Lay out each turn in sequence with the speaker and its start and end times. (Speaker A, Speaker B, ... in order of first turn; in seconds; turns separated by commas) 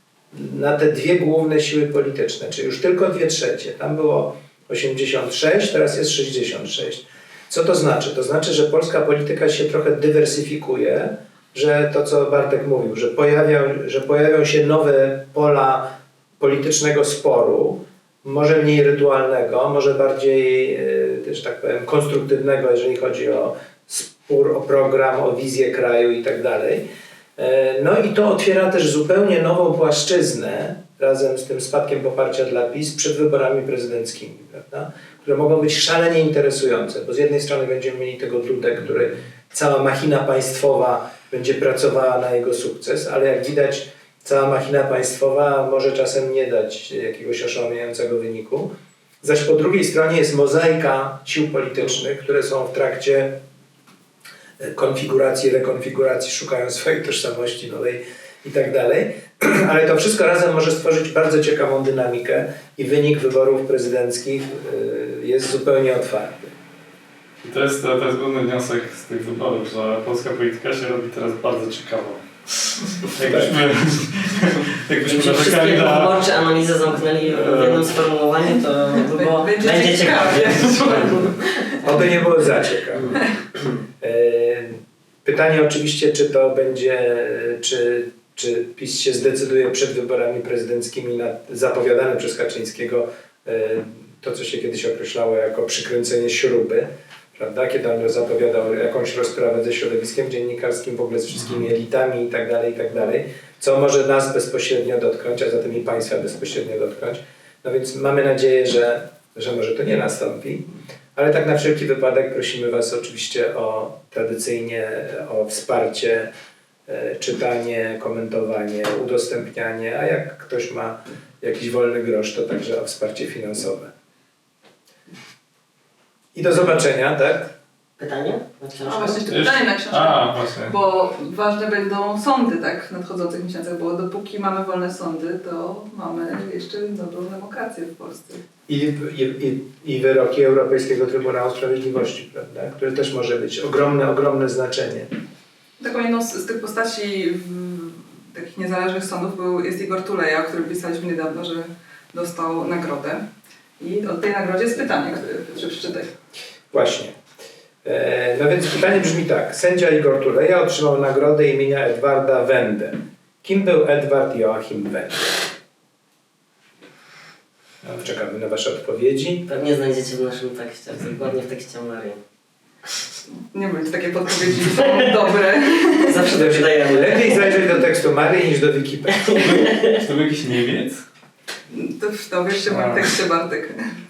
Speaker A: 0.3-48.7, Speaker A: 49.2-53.4, Speaker A: 54.6-66.5, Speaker B: 67.4-76.2, Speaker A: 73.2-73.5, Speaker C: 75.0-81.2, Speaker B: 77.3-77.9, Speaker D: 79.1-81.8, Speaker A: 81.8-83.2, Speaker A: 84.0-116.3, Speaker A: 116.9-123.9, Speaker A: 126.3-127.5, Speaker C: 128.0-129.2, Speaker D: 128.8-138.4, Speaker B: 129.3-130.8, Speaker A: 138.7-145.1, Speaker D: 145.8-153.2, Speaker D: 153.8-156.1, Speaker A: 156.7-157.2, Speaker A: 157.8-165.3, Speaker A: 167.9-169.4, Speaker C: 169.5-172.2, Speaker D: 173.5-176.3, Speaker C: 176.0-177.5, Speaker A: 176.3-179.7, Speaker C: 179.3-179.9, Speaker B: 179.4-181.0, Speaker D: 181.7-183.8, Speaker B: 182.7-183.1